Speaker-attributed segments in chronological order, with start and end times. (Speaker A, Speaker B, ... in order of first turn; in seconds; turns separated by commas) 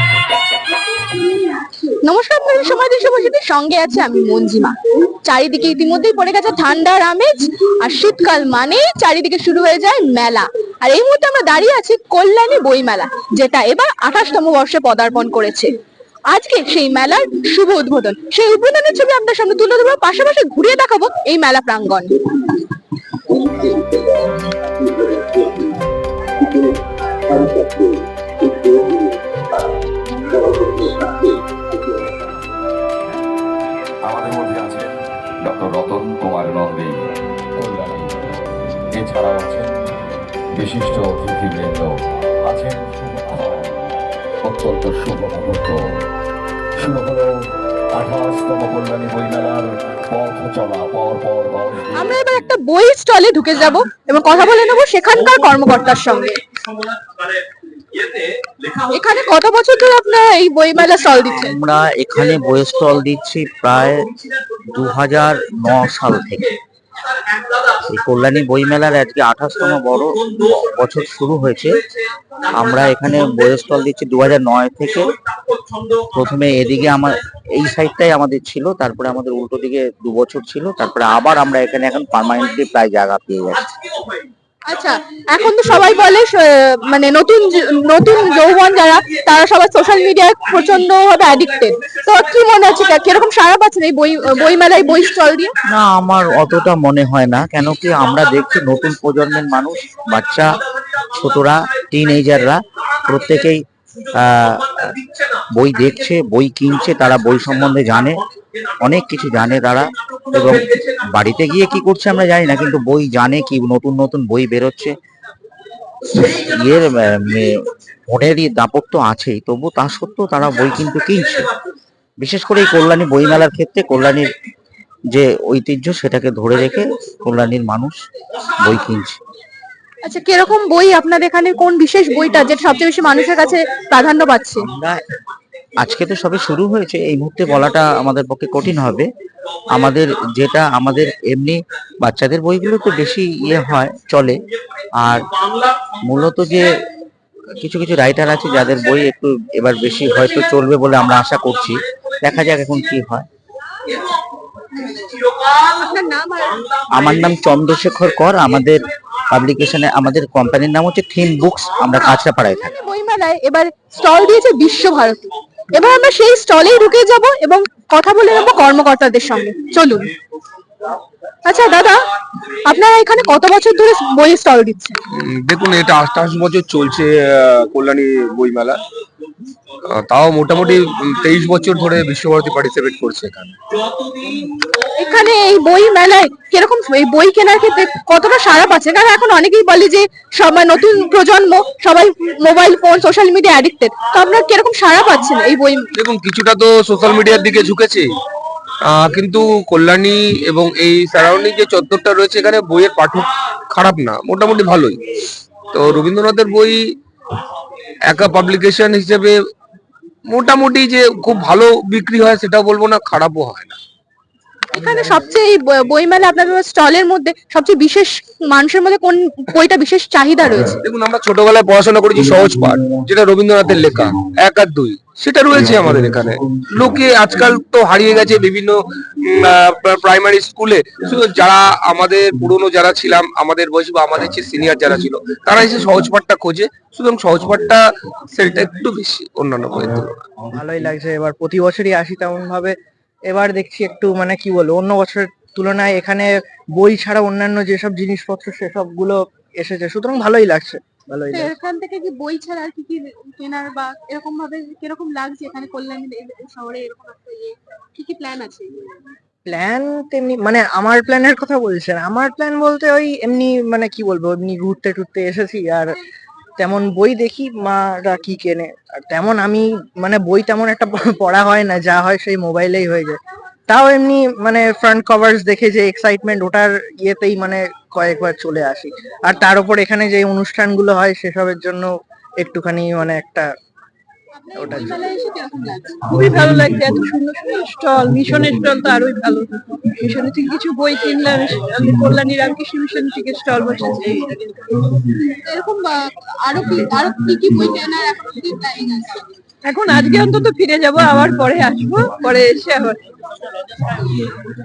Speaker A: 2.0-15.7, Speaker A: 16.3-22.5, Speaker B: 34.0-39.9, Speaker B: 40.5-45.8, Speaker B: 46.8-52.1, Speaker A: 51.9-56.4, Speaker A: 58.9-61.6, Speaker C: 61.2-64.1, Speaker C: 64.7-66.5, Speaker C: 67.9-71.8, Speaker C: 72.5-75.2, Speaker C: 76.1-83.7, Speaker A: 84.7-95.5, Speaker C: 95.7-105.0, Speaker C: 105.5-108.2, Speaker C: 108.8-115.0, Speaker C: 116.1-121.5, Speaker C: 122.2-124.3, Speaker C: 125.1-128.0, Speaker C: 128.6-129.2, Speaker A: 130.0-134.7, Speaker C: 134.6-135.0, Speaker C: 135.8-139.1, Speaker C: 139.7-144.4, Speaker C: 145.0-145.3, Speaker C: 146.0-146.8, Speaker C: 147.6-153.2, Speaker A: 154.8-156.6, Speaker C: 156.9-162.7, Speaker A: 162.1-170.1, Speaker A: 171.4-172.1, Speaker A: 172.6-175.0, Speaker D: 175.1-178.8, Speaker D: 179.8-183.6, Speaker A: 184.9-195.9, Speaker D: 195.9-198.1, Speaker D: 198.8-205.1, Speaker D: 205.7-206.9, Speaker D: 208.1-209.3, Speaker D: 210.3-213.8, Speaker A: 214.7-220.8, Speaker D: 220.8-240.2, Speaker E: 240.5-242.7, Speaker E: 243.3-251.5, Speaker A: 251.3-258.9, Speaker E: 259.5-265.9, Speaker E: 266.6-281.9, Speaker E: 282.4-283.5, Speaker A: 284.4-286.1, Speaker E: 284.6-285.0, Speaker F: 286.1-294.9, Speaker A: 295.2-299.3, Speaker F: 299.6-303.0